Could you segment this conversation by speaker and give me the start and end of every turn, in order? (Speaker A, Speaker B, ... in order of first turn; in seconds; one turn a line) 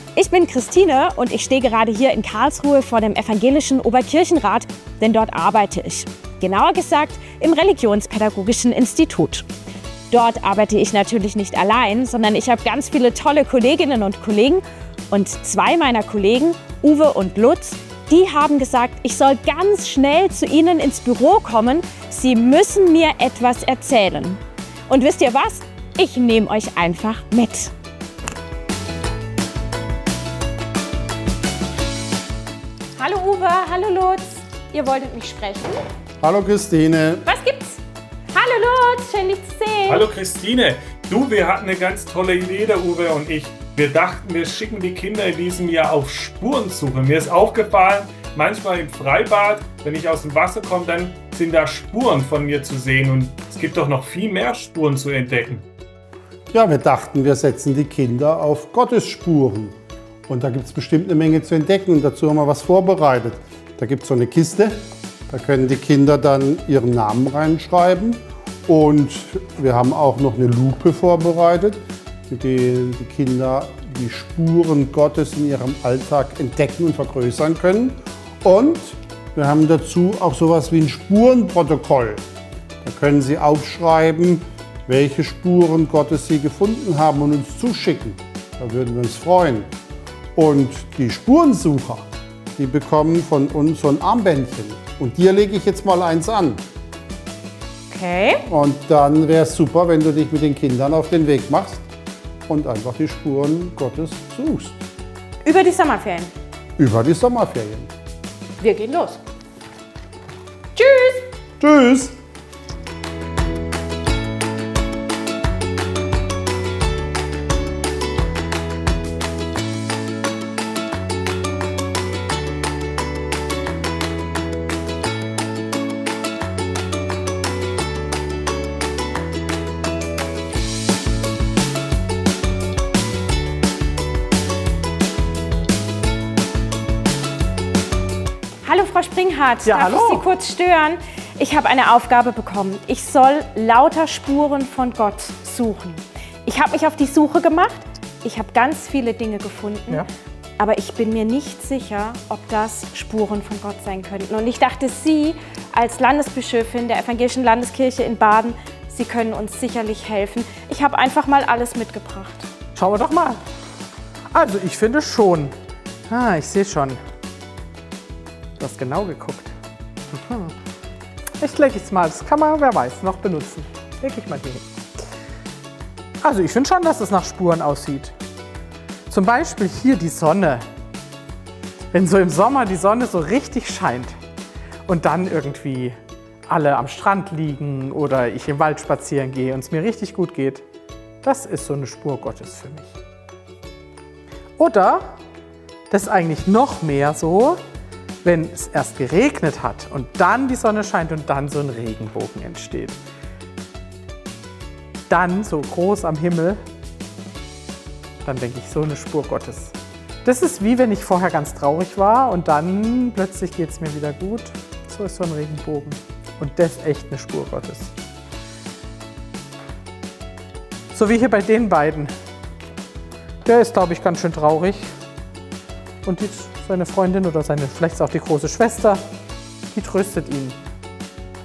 Speaker A: 0.2-9.5
Speaker A: 10.1-27.7
Speaker A: 33.0-35.8
Speaker B: 36.2-37.2
Speaker A: 37.3-37.8
Speaker A: 38.3-40.0
Speaker C: 40.1-55.7
Speaker B: 56.5-59.8
Speaker B: 60.3-82.2
Speaker B: 82.8-89.7
Speaker B: 90.3-96.6
Speaker A: 97.9-98.5
Speaker B: 98.5-101.8
Speaker B: 102.5-104.8
Speaker A: 105.4-106.3
Speaker B: 106.8-107.9
Speaker A: 108.6-109.2
Speaker A: 110.8-111.3
Speaker B: 111.6-112.2
Speaker A: 138.6-150.0
Speaker D: 139.6-140.3
Speaker A: 150.6-162.5
Speaker D: 162.8-163.4
Speaker D: 164.3-165.6
Speaker D: 166.1-167.0
Speaker D: 168.6-169.5
Speaker D: 170.1-170.6
Speaker D: 171.4-174.7
Speaker D: 176.2-178.2
Speaker D: 179.1-180.7
Speaker D: 181.9-184.2
Speaker D: 184.9-190.7
Speaker D: 191.2-193.0
Speaker D: 194.6-195.2
Speaker D: 195.9-197.6
Speaker D: 198.2-203.0
Speaker D: 205.1-206.6
Speaker D: 208.2-217.9
Speaker D: 220.9-222.1
Speaker D: 223.4-224.9
Speaker D: 226.0-229.0
Speaker D: 229.7-230.6